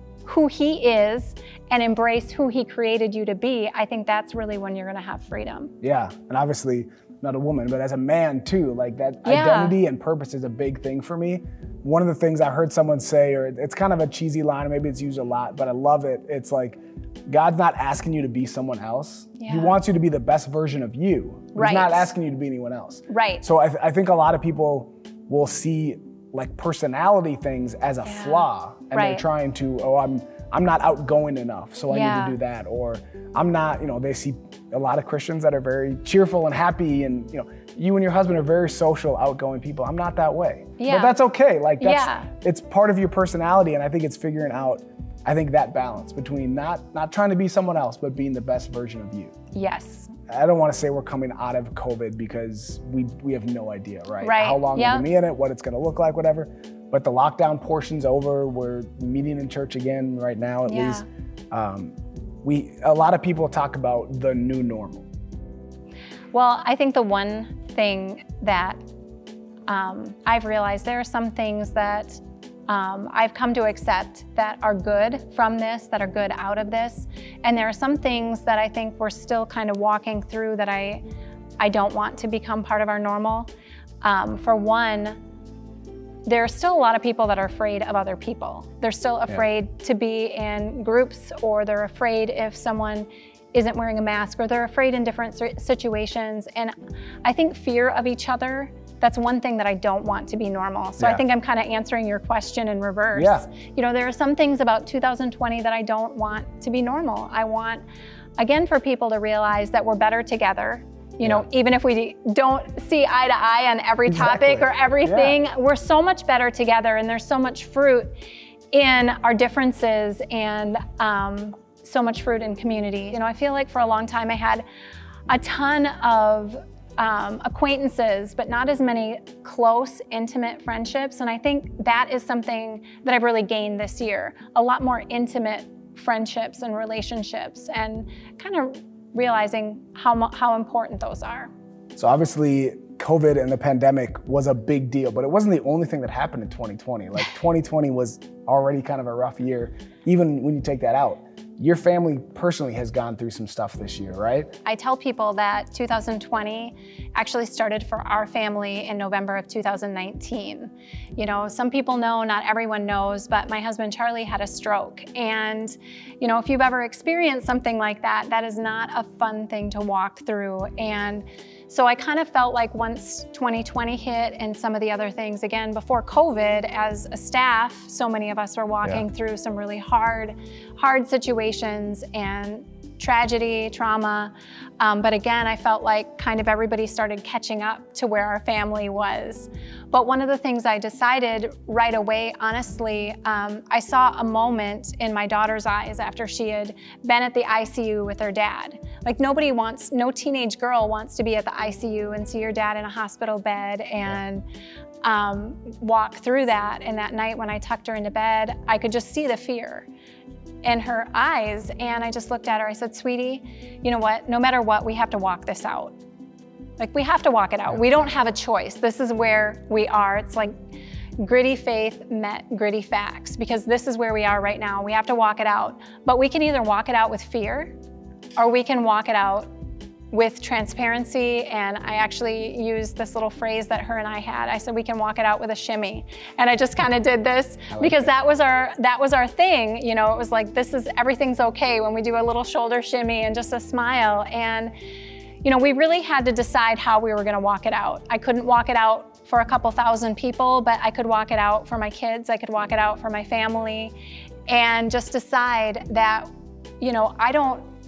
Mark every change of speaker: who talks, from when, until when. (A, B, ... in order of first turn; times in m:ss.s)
0:00.2-0:05.7 A
0:05.8-0:49.3 B
0:09.2-0:09.8 A
0:19.4-0:19.8 A
0:21.5-0:22.1 A
0:23.1-0:23.4 A
0:28.0-0:29.2 A
0:31.9-0:32.4 A
0:40.8-0:41.1 A
0:41.8-0:42.3 A
0:49.5-0:50.1 A
0:50.3-1:01.9 B
0:54.2-0:55.0 A
1:00.7-1:01.0 A
1:02.4-1:05.1 B
1:06.3-1:08.8 A
1:09.7-1:21.0 A
1:21.6-1:23.5 A
1:24.0-1:25.2 A
1:26.2-1:47.8 A
1:43.1-1:43.5 B
1:48.4-1:58.1 A
1:54.1-1:55.4 B
1:58.7-2:04.6 A
2:05.3-2:21.5 A
2:22.0-2:34.5 B
2:34.6-3:24.4 A
3:25.0-3:29.9 A
3:30.6-3:35.9 A
3:36.8-3:40.5 A
3:41.2-3:47.7 A
3:48.4-3:49.5 A
3:50.1-4:04.7 A
3:57.7-3:58.1 B
4:05.4-4:13.9 A
4:14.5-4:16.3 A
4:16.8-4:17.6 A